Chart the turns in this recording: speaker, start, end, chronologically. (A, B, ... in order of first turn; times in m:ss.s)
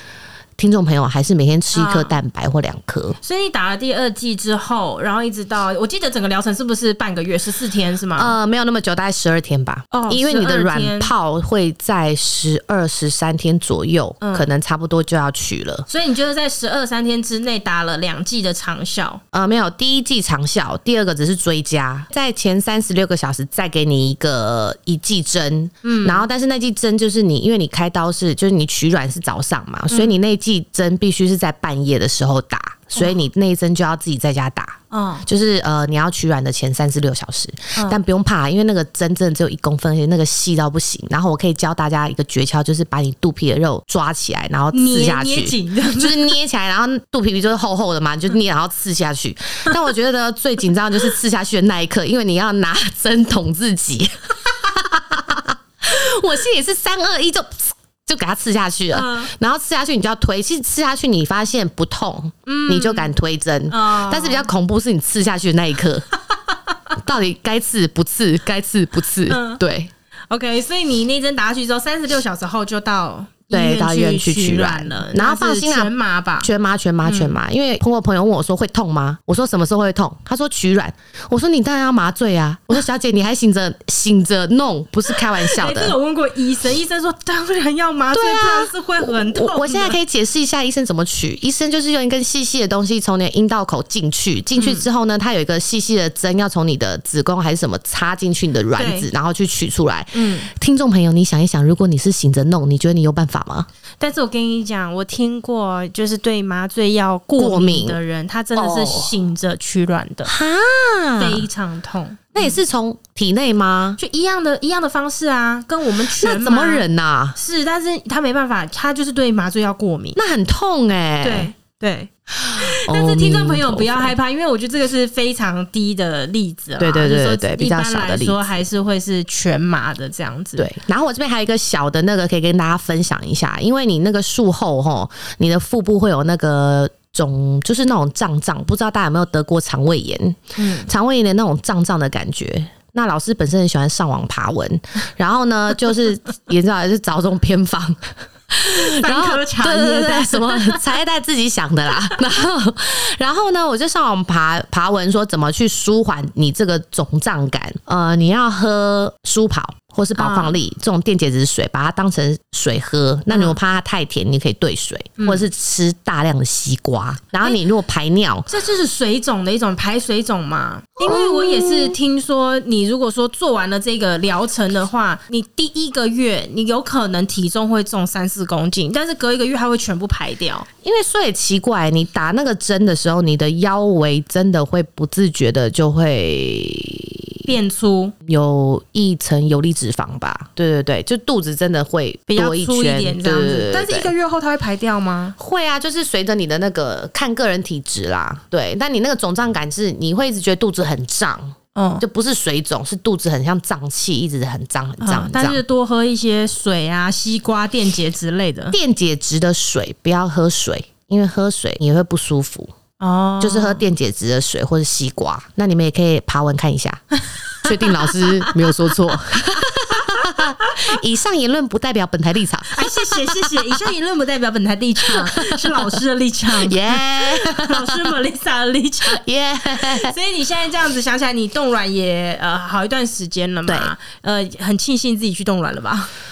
0:00.6-0:03.2 A
0:01.7-0:02.2 B
0:03.2-0:08.4 B
0:08.2-0:15.9 A
0:09.9-0:11.1 B
0:14.2-0:14.5 B
0:15.9-0:19.2 B
0:19.3-1:06.0 A
0:25.8-0:26.3 B
0:29.9-0:30.2 B
0:34.9-0:35.3 B
0:44.7-0:46.4 B
0:58.9-0:59.3 B
1:02.5-1:03.1 B
1:03.7-1:04.5 B
1:07.0-1:09.9 A
1:09.3-1:09.6 B
1:10.3-1:16.5 B
1:13.5-1:26.0 A
1:17.0-1:17.4 B
1:25.1-1:30.0 B
1:28.1-1:43.7 A
1:34.6-1:34.9 B
1:38.8-1:39.1 B
1:40.1-1:40.5 B
1:44.0-1:50.3 B
1:47.4-1:48.0 A
1:48.6-1:49.1 A
1:50.3-1:51.5 A
1:51.2-1:52.6 B
1:52.4-1:54.0 A
1:54.0-2:00.2 B
1:56.0-1:57.4 A
2:00.2-2:01.5 A
2:01.2-2:10.7 B
2:02.4-2:04.1 A
2:06.8-2:08.4 A
2:10.6-2:48.5 A
2:20.6-2:20.9 B
2:28.6-2:30.8 B
2:40.2-2:40.6 B
2:43.3-2:43.6 B
2:45.2-2:45.4 B
2:48.5-3:00.7 B
2:51.0-2:52.0 A
3:00.8-3:07.5 A
3:07.5-3:08.1 B
3:08.2-3:14.1 A
3:12.3-3:15.4 B
3:15.4-3:25.6 A
3:21.8-3:22.0 B
3:25.0-3:28.8 B
3:28.7-3:32.7 A
3:33.0-3:33.8 B
3:33.4-3:37.0 A
3:37.6-3:43.7 A
3:37.6-3:38.7 B
3:39.7-3:40.9 B
3:42.7-3:49.2 B
3:45.0-3:45.8 A
3:46.5-3:48.1 A
3:49.1-3:50.1 A
3:49.8-3:56.1 B
3:53.7-3:53.9 A